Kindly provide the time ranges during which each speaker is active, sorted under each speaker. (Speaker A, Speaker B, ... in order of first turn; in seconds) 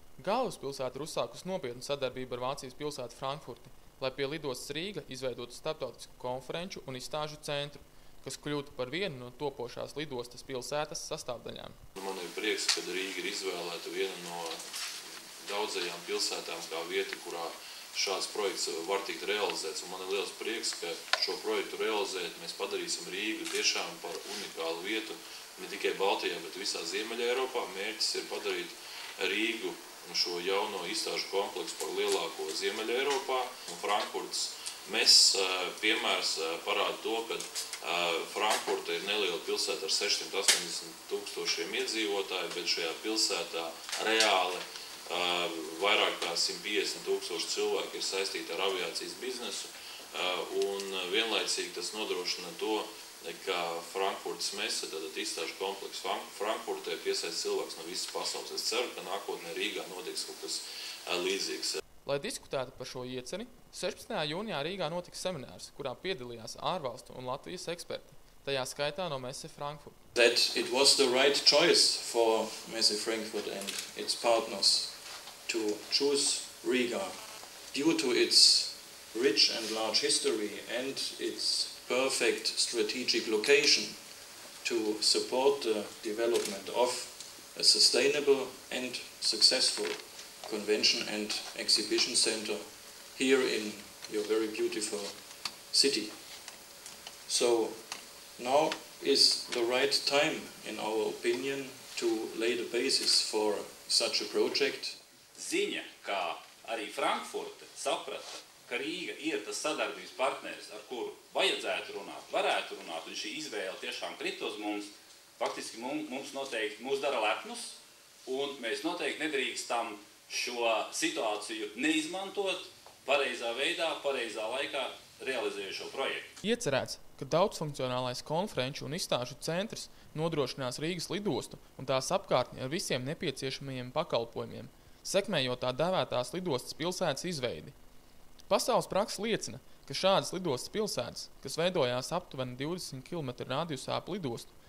Speaker A: 0.2-11.8, 62.0-70.0, 126.4-137.7, 138.5-144.5
Speaker B: 11.9-14.6, 15.4-61.8
Speaker C: 70.1-74.9, 75.5-84.0, 84.6-95.1, 95.7-96.2, 97.3-97.8, 98.4-105.0
Speaker D: 105.3-126.3